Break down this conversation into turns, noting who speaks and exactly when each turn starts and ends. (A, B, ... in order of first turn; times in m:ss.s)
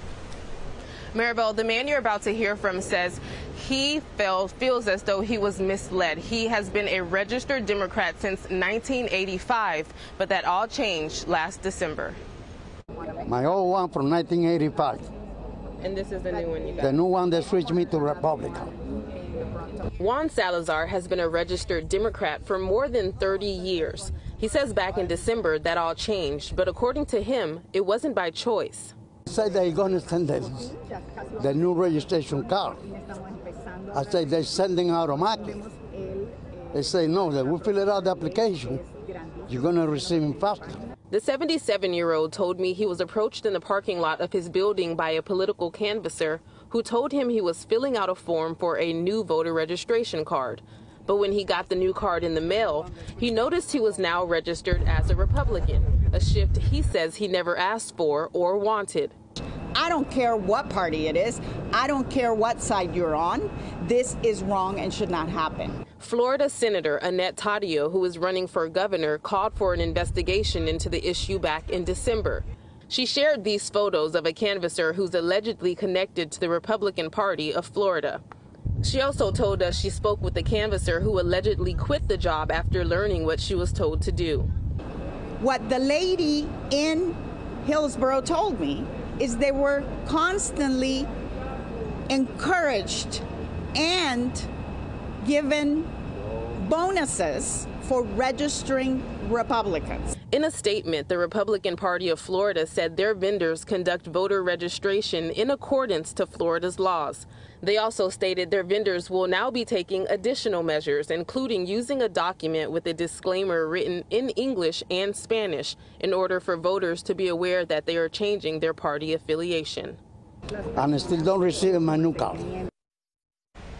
0:01.1-0:12.2 A
0:13.2-0:15.1 B
0:15.8-0:17.0 A
0:16.8-0:18.8 B
0:20.0-0:28.9 A
0:29.3-0:30.8 B
0:31.4-0:32.9 B
0:33.9-0:35.6 B
0:35.9-0:36.2 C
0:36.7-0:38.8 B
0:39.5-0:40.8 B
0:41.1-0:59.1 A
0:59.7-1:05.8 C
1:06.0-1:18.2 A
1:18.8-1:24.5 A
1:25.4-1:31.1 C
1:32.1-1:34.5 C
1:35.2-1:35.9 C
1:36.6-1:40.1 C
1:40.3-2:00.0 A
2:00.8-2:02.5 B